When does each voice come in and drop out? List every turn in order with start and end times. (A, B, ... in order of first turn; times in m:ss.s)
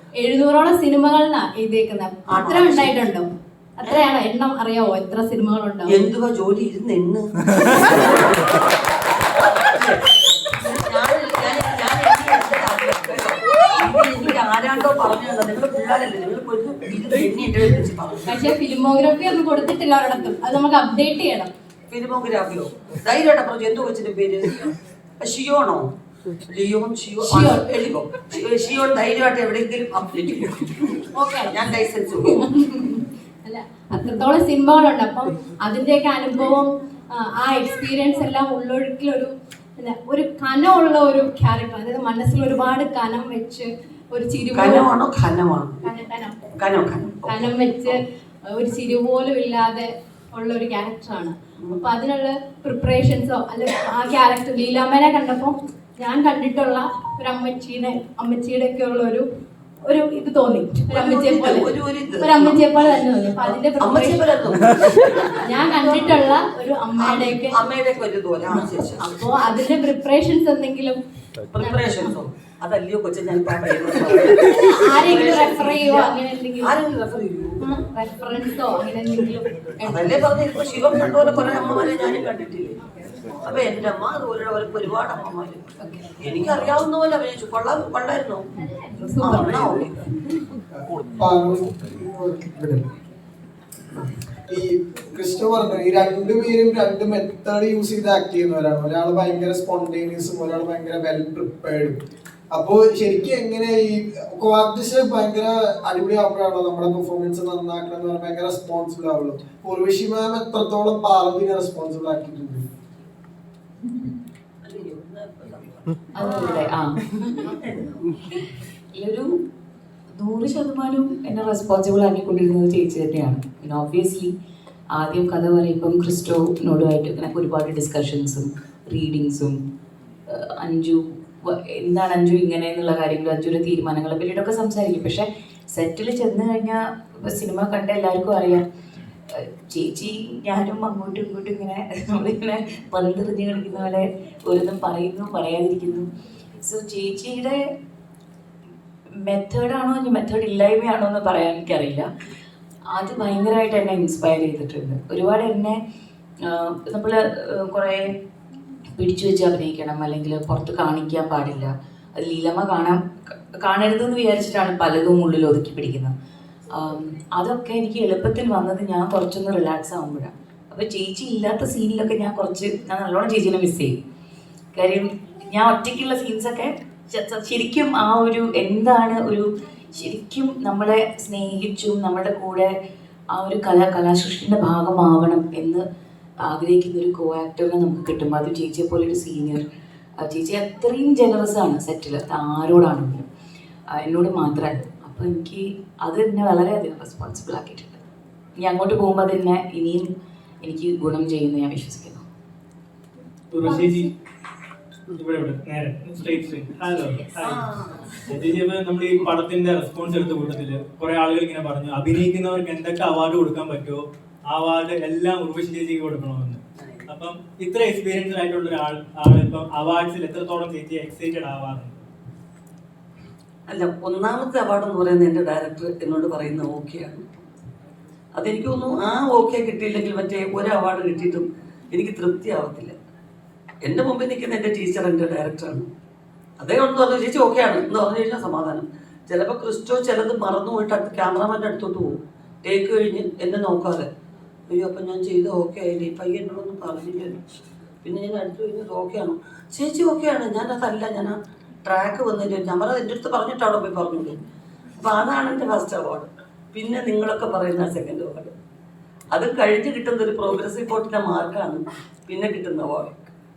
0:00.2-0:03.3 A
0:02.3-0:03.0 B
0:03.8-0:06.0 A
0:05.9-0:08.7 B
0:09.4-0:18.5 B
0:18.3-0:21.5 A
0:21.9-0:25.9 B
0:26.5-0:32.4 B
0:27.2-0:27.6 A
0:31.1-0:31.6 A
0:32.3-0:44.9 A
0:44.5-0:45.8 B
0:45.8-0:46.4 A
0:46.6-0:47.4 B
0:47.2-0:48.0 A
0:48.5-0:59.2 A
0:59.8-1:04.3 A
1:00.9-1:06.2 B
1:05.4-1:07.6 A
1:07.0-1:09.1 B
1:09.0-1:11.0 A
1:11.5-1:17.7 B
1:11.6-1:12.1 A
1:14.6-1:16.8 A
1:17.6-1:20.2 A
1:19.8-1:22.8 B
1:23.4-1:25.6 B
1:26.2-1:28.4 B
1:29.0-1:29.9 A
1:29.2-1:30.0 B
1:30.7-1:32.9 C
1:34.5-1:52.6 C
1:54.6-1:56.7 B
1:56.2-1:57.0 D
1:57.4-1:58.0 B
1:59.0-1:59.3 D
2:00.2-2:04.3 D
2:05.0-2:09.6 D
2:10.3-2:18.6 D
2:19.3-2:27.6 D
2:29.2-2:32.1 D
2:32.9-2:35.8 D
2:36.4-2:38.1 D
2:39.0-2:43.0 D
2:43.6-2:46.1 D
2:46.7-2:54.0 D
2:54.7-3:02.7 D
3:03.3-3:05.8 D
3:06.4-3:09.6 D
3:10.2-3:13.2 D
3:14.0-3:18.0 D
3:18.6-3:20.1 D
3:20.6-3:22.2 D
3:23.5-3:24.1 E
3:25.1-3:27.7 E
3:27.4-3:28.2 B
3:28.3-3:42.0 E
3:36.8-3:37.0 B
3:43.7-3:47.2 B
3:48.4-3:52.9 B
3:53.8-3:55.9 B
3:56.6-4:04.1 B
4:04.7-4:07.4 B
4:08.0-4:14.4 B
4:15.0-4:18.5 B
4:19.3-4:23.3 B